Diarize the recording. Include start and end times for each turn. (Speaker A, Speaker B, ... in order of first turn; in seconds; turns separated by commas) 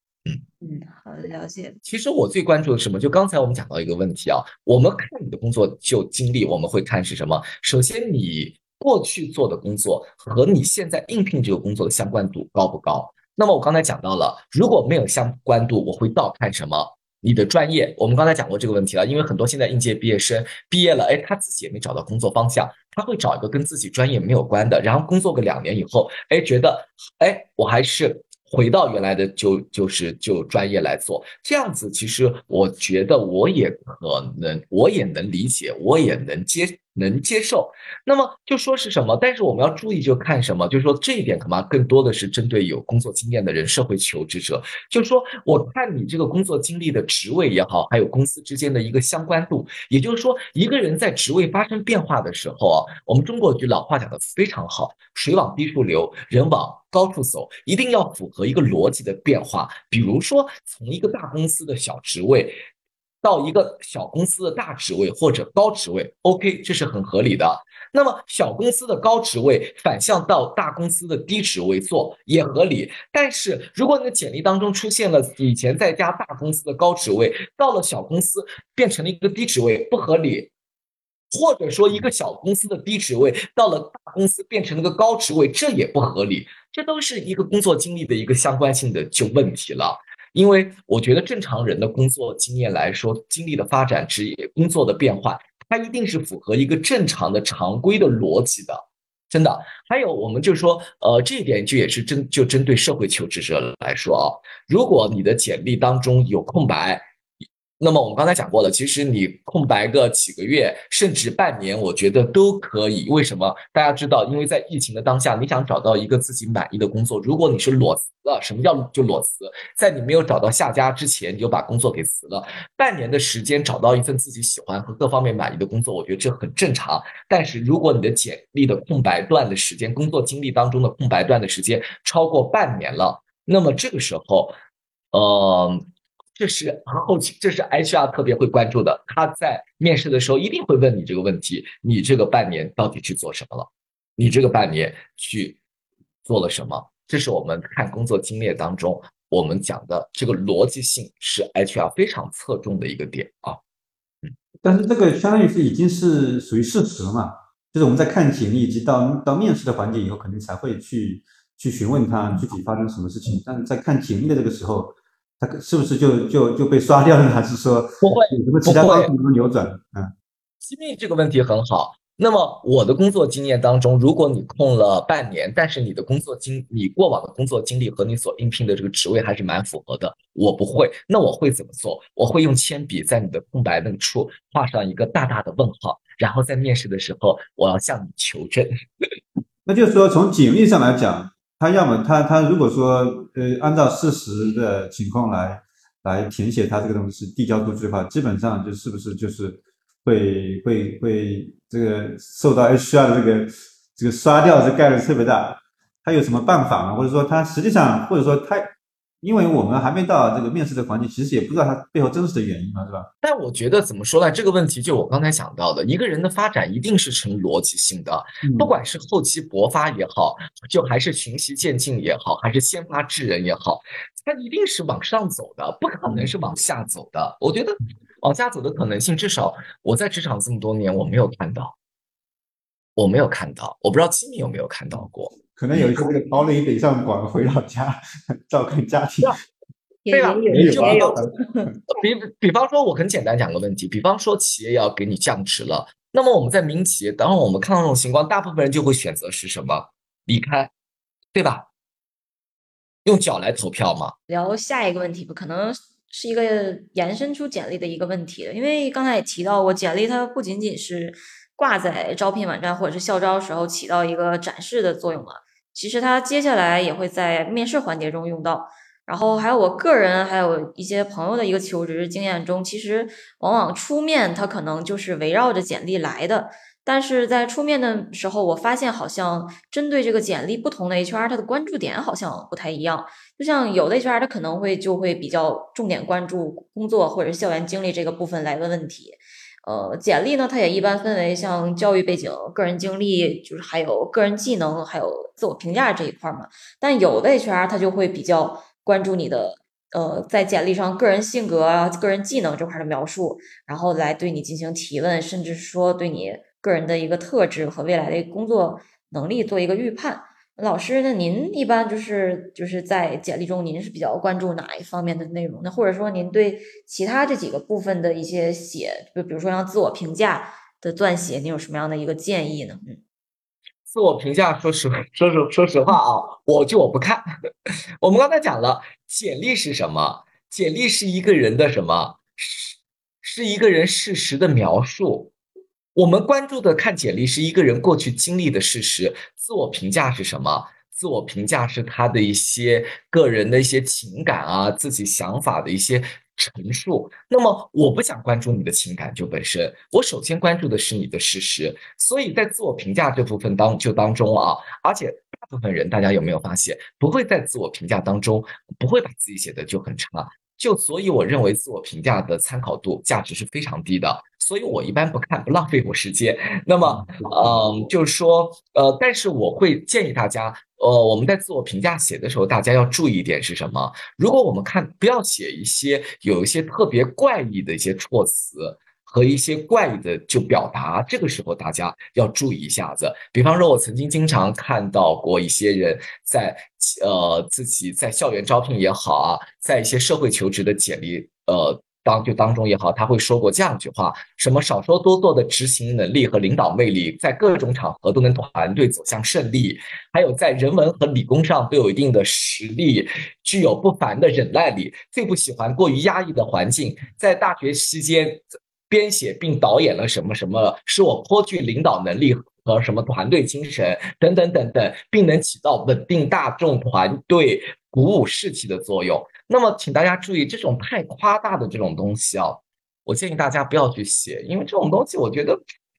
Speaker A: 0.6-1.8, Speaker B: 1.8-62.6, Speaker B: 63.2-80.5, Speaker B: 81.3-107.0, Speaker B: 107.8-134.5, Speaker B: 135.1-145.6, Speaker B: 146.2-153.6, Speaker C: 154.6-170.1, Speaker B: 168.0-169.1, Speaker B: 170.6-189.1, Speaker C: 189.7-213.1, Speaker B: 213.2-231.7, Speaker C: 218.4-218.7, Speaker B: 232.9-236.1, Speaker C: 235.6-239.4, Speaker A: 240.0-241.7, Speaker B: 240.1-241.2, Speaker C: 240.5-241.3, Speaker B: 241.9-250.7, Speaker B: 251.3-251.7, Speaker B: 253.0-254.1, Speaker A: 254.3-322.9, Speaker B: 323.9-335.3, Speaker B: 335.9-425.6, Speaker C: 366.8-367.8